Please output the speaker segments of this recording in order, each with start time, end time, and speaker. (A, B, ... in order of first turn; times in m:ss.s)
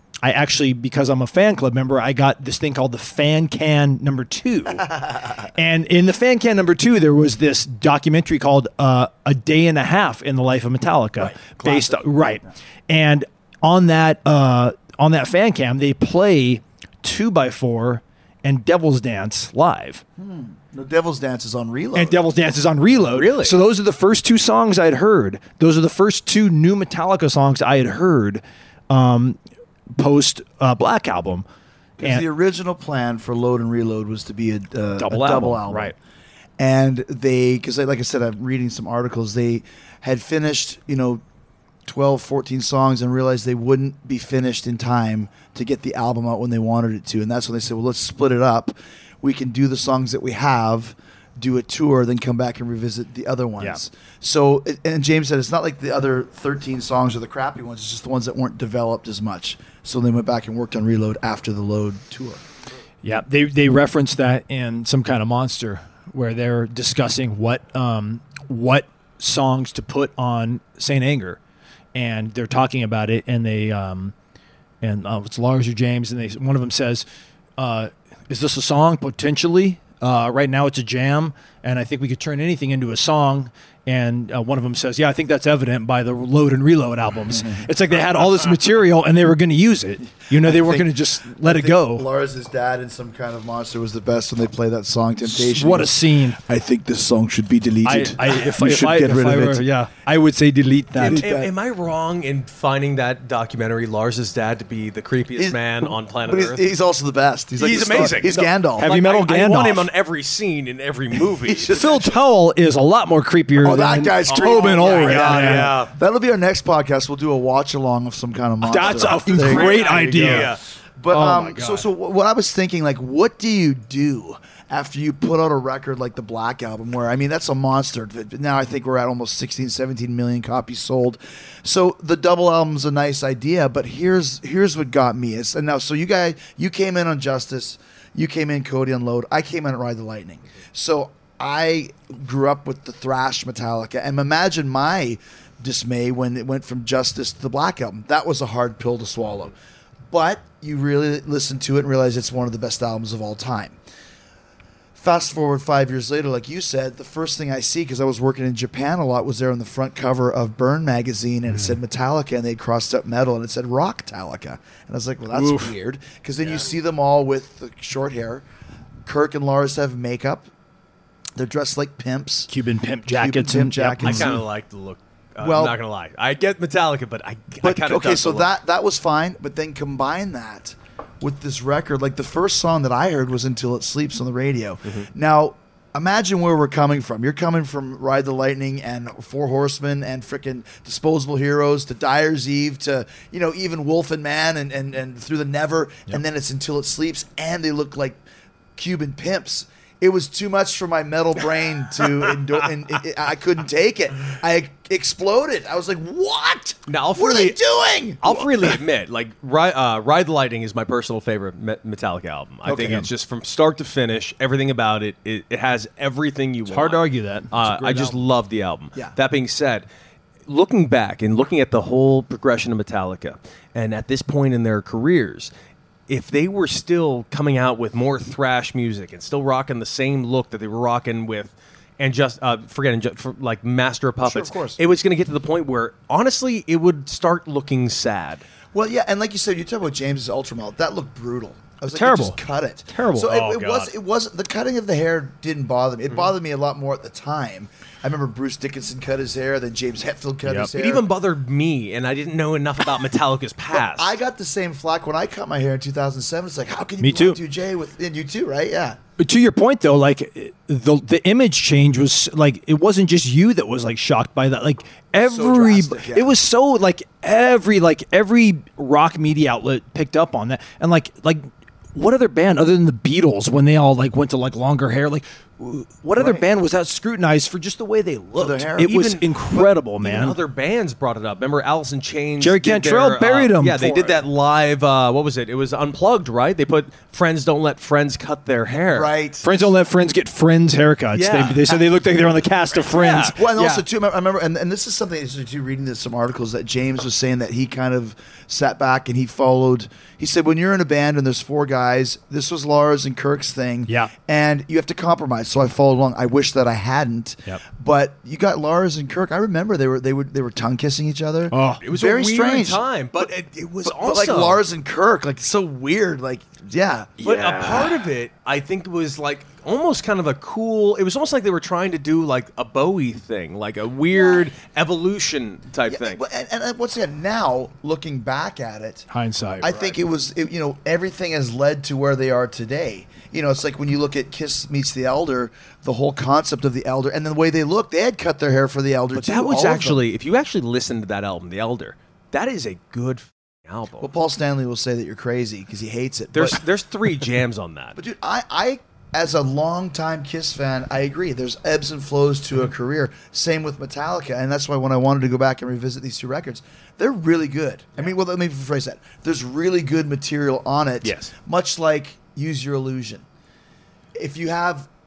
0:00.2-0:20.0 A
0:11.2-0:12.0 B
0:20.2-0:22.2 B
0:21.9-0:29.4 A
0:23.1-0:23.6 C
0:30.0-0:31.4 A
0:32.0-0:35.9 B
0:35.0-0:35.9 A
0:36.6-0:41.2 B
0:41.8-1:02.4 B
1:03.0-1:11.4 A
1:11.9-1:14.1 A
1:14.8-1:17.0 A
1:17.6-1:32.0 A
1:30.3-1:39.6 B
1:35.2-1:36.4 A
1:37.8-1:41.2 A
1:41.0-1:41.5 B
1:41.0-1:46.6 C
1:45.4-1:48.9 B
1:47.6-1:51.8 C
1:48.8-1:49.9 A
1:51.4-1:52.2 B
1:51.7-1:55.8 A
1:53.6-2:29.5 B
1:54.3-1:55.9 C
1:58.6-2:00.5 A
1:58.8-2:00.6 C
2:01.1-2:01.8 A
2:30.1-2:33.8 B
2:35.0-2:48.4 B
2:45.3-2:45.7 A
2:49.0-2:50.5 B
2:51.4-2:52.5 B
2:52.5-2:54.4 A
2:53.1-2:54.4 B
2:54.0-2:58.5 C
2:55.4-2:55.8 B
2:57.6-3:18.2 B
3:18.8-3:28.8 B
3:26.9-3:27.6 C
3:28.2-3:39.9 C
3:32.6-3:33.1 B
3:36.6-3:38.2 A
3:40.5-3:45.5 C
3:46.1-3:58.4 C
3:54.2-3:54.8 B
3:58.7-4:11.0 B
4:01.9-4:03.6 A
4:03.3-4:03.9 C
4:10.4-4:10.7 A
4:10.8-4:14.1 C
4:13.7-4:19.0 B
4:17.0-4:17.4 A
4:19.2-4:40.4 A
4:25.2-4:26.3 B
4:36.2-4:36.4 B
4:38.4-4:39.0 B
4:38.8-4:49.1 C
4:42.4-4:44.2 A
4:48.9-4:49.5 B
4:49.4-4:53.8 A
4:51.1-4:51.7 C
4:52.9-4:53.3 C
4:53.0-5:13.3 B
5:11.5-5:11.8 A
5:11.8-5:14.6 C
5:13.8-5:17.1 B
5:17.2-5:18.0 A
5:17.2-5:26.2 C
5:25.9-5:29.1 B
5:29.1-5:29.9 A
5:29.6-5:40.0 B
5:39.1-5:44.1 C
5:44.0-5:46.6 B
5:46.4-5:48.0 C
5:48.0-6:03.2 B
6:01.0-6:01.3 C
6:04.2-6:04.9 B